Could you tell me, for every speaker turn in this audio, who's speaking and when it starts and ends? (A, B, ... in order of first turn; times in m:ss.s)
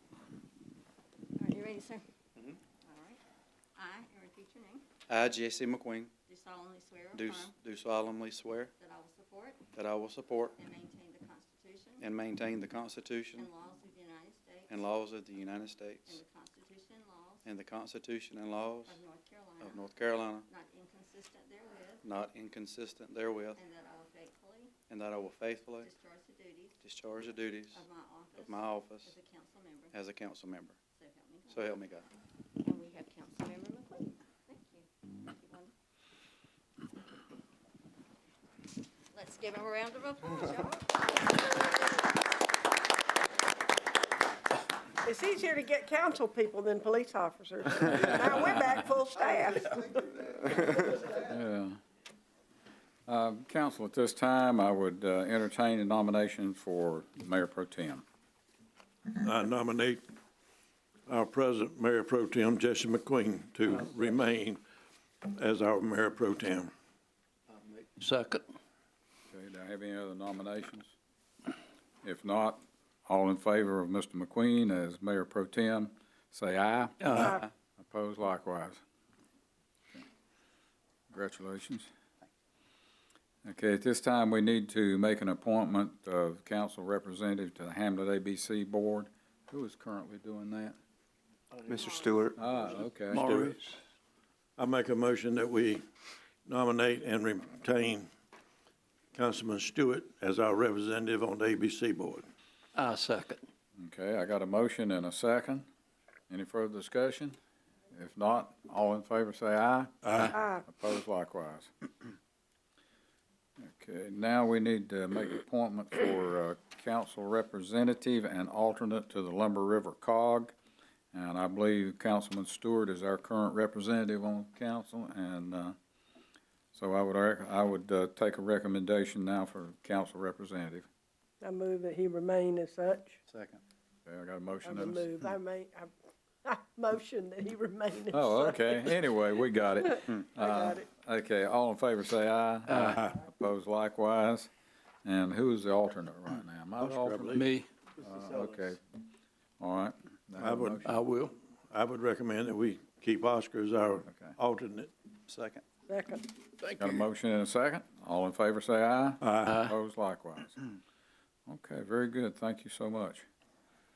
0:01.3-0:02.0 A
0:02.8-0:03.2 A
0:03.8-0:04.8 A
0:05.1-0:06.1 B
0:06.3-0:07.5 A
0:07.2-0:08.7 B
0:08.8-0:09.7 A
0:09.7-0:10.5 B
0:10.5-0:12.0 A
0:12.0-0:13.5 B
0:13.4-0:14.8 A
0:14.7-0:16.2 B
0:16.0-0:17.5 A
0:17.4-0:19.0 B
0:18.8-0:19.8 A
0:19.6-0:20.4 B
0:20.5-0:22.0 A
0:22.0-0:23.6 B
0:23.5-0:24.7 A
0:24.9-0:25.9 B
0:25.8-0:26.8 A
0:26.8-0:27.8 B
0:27.7-0:29.9 A
0:28.4-0:29.1 B
0:29.9-0:30.8 B
0:30.9-0:31.7 A
0:31.5-0:32.0 B
0:32.6-0:35.7 A
0:39.1-0:41.0 A
0:45.0-0:50.3 C
0:51.1-0:51.8 D
0:53.1-0:58.0 D
0:59.1-1:00.0 E
1:01.1-1:04.6 E
1:05.2-1:06.7 E
1:07.8-1:08.4 F
1:09.3-1:10.9 D
1:12.0-1:18.8 D
1:17.0-1:17.3 F
1:21.1-1:21.9 D
1:23.4-1:30.8 D
1:31.8-1:32.1 A
1:31.9-1:32.3 B
1:32.3-1:33.2 D
1:33.1-1:33.8 F
1:33.1-1:33.6 E
1:34.6-1:35.8 E
1:36.4-1:38.1 E
1:39.1-1:42.2 E
1:42.8-1:43.4 F
1:43.8-1:45.7 D
1:46.3-1:47.4 D
1:47.9-1:52.1 D
1:53.6-2:00.5 D
2:01.1-2:05.8 D
2:06.7-2:10.9 D
2:11.4-2:13.2 C
2:13.3-2:13.6 B
2:14.1-2:15.2 D
2:14.6-2:15.9 C
2:16.4-2:19.0 C
2:18.1-2:24.5 D
2:20.4-2:20.9 C
2:22.7-2:23.0 F
2:25.0-2:27.4 D
2:26.8-2:27.4 E
2:27.3-2:27.7 F
2:28.0-2:28.8 D
2:29.6-2:30.9 D
2:30.4-2:30.9 E
2:30.8-2:31.3 F
2:31.7-2:34.9 E
2:34.1-2:34.4 D
2:35.3-2:35.6 B
2:35.9-2:36.3 C
2:36.8-2:40.6 D
2:39.2-2:39.5 E
2:39.4-2:39.8 F
2:41.5-2:43.2 D